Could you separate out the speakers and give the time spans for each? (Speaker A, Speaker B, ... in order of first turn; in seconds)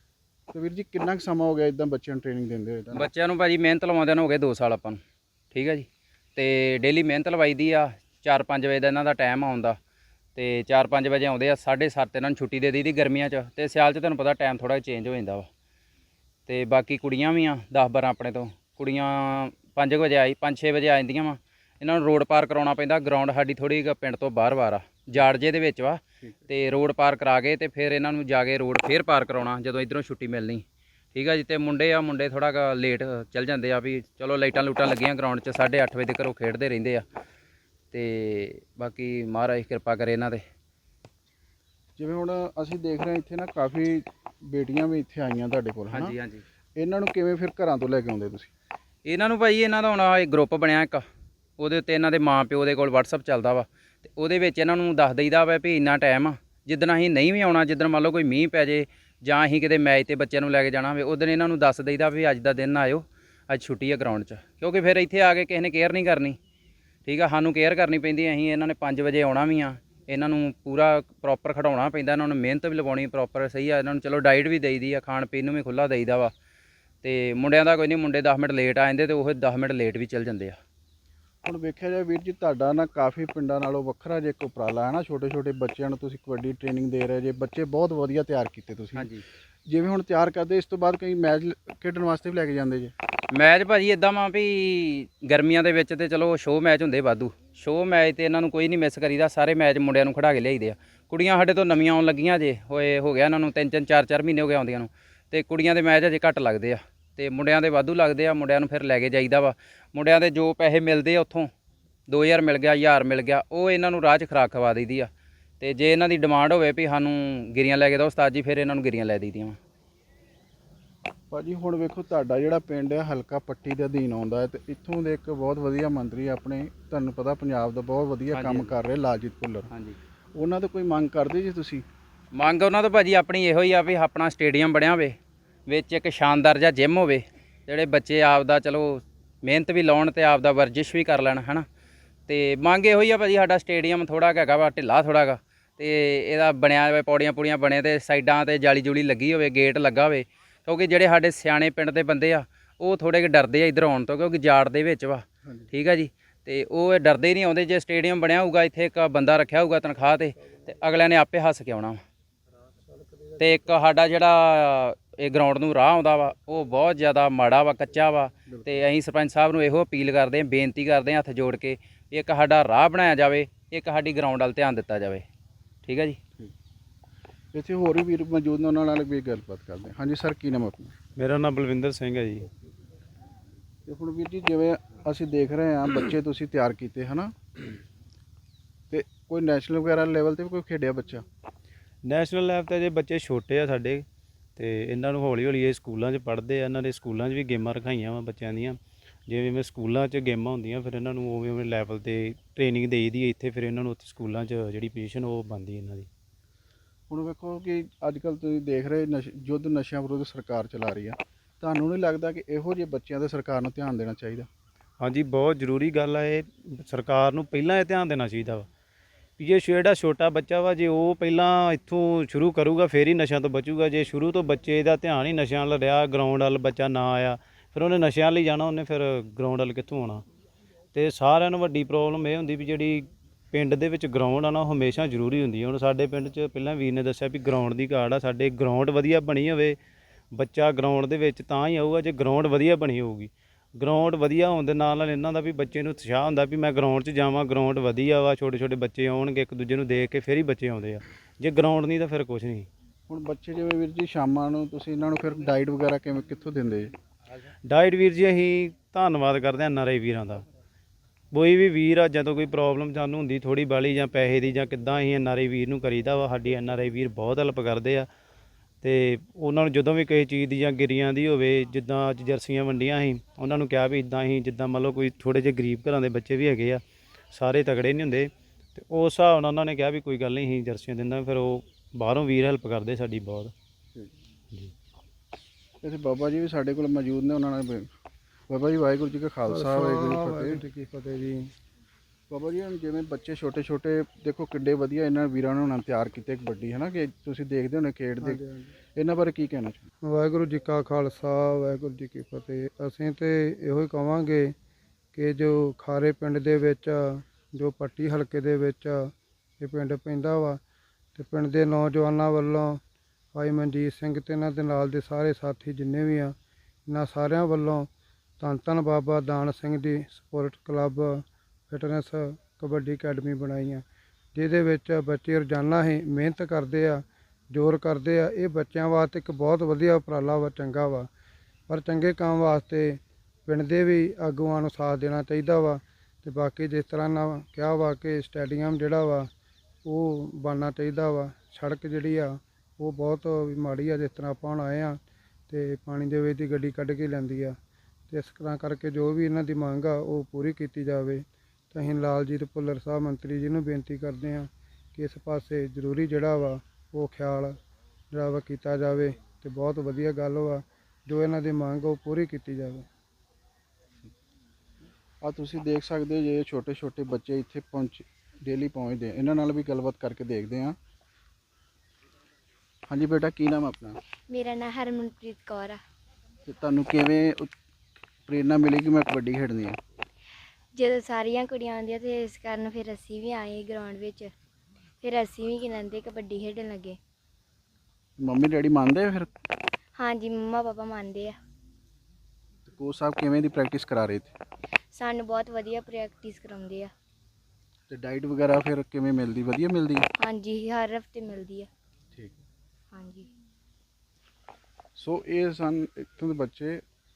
Speaker A: 0.5-3.1, 42.0-46.1, 46.8-48.5, 81.5-89.1, 89.7-92.9, 121.3-129.7, 130.3-131.8, 177.5-180.9, 183.9-187.3, 188.9-191.2, 207.1-214.5, 253.1-256.9, 285.8-287.9, 288.5-290.6, 292.3-298.4, 298.9-299.9, 365.2-370.8, 372.9-374.0, 376.5-377.5, 378.3-379.8, 388.2-389.3, 392.7-394.3, 397.9-400.1, 405.0-406.8
Speaker B: 2.9-5.0, 5.5-9.8, 10.4-15.5, 16.5-30.6, 31.1-37.0, 37.9-40.4, 45.9-46.4, 49.1-51.0, 51.6-66.4, 67.0-76.3, 77.0-80.6, 89.0-89.2, 93.3-111.5, 112.1-119.6, 128.3-128.7, 129.7-130.0, 132.4-135.2, 135.7-141.7, 142.3-162.0, 163.4-175.2, 175.8-176.2
Speaker C: 181.2-182.5, 192.0-194.1, 194.6-206.1, 215.0-218.7, 219.4-230.2, 230.9-239.8, 240.3-252.7, 257.6-260.4, 261.3-268.1, 268.8-283.5
Speaker D: 289.5-291.5, 298.2-298.7, 300.1-304.6, 305.1-310.6, 311.1-312.8, 313.3-316.4, 316.9-331.1, 331.7-339.3, 339.8-347.6, 348.1-357.6, 358.1-362.9
Speaker E: 374.3-375.8, 380.7-384.3, 385.0-387.0, 390.0-391.4, 394.9-396.9, 400.2-401.7, 402.9-403.3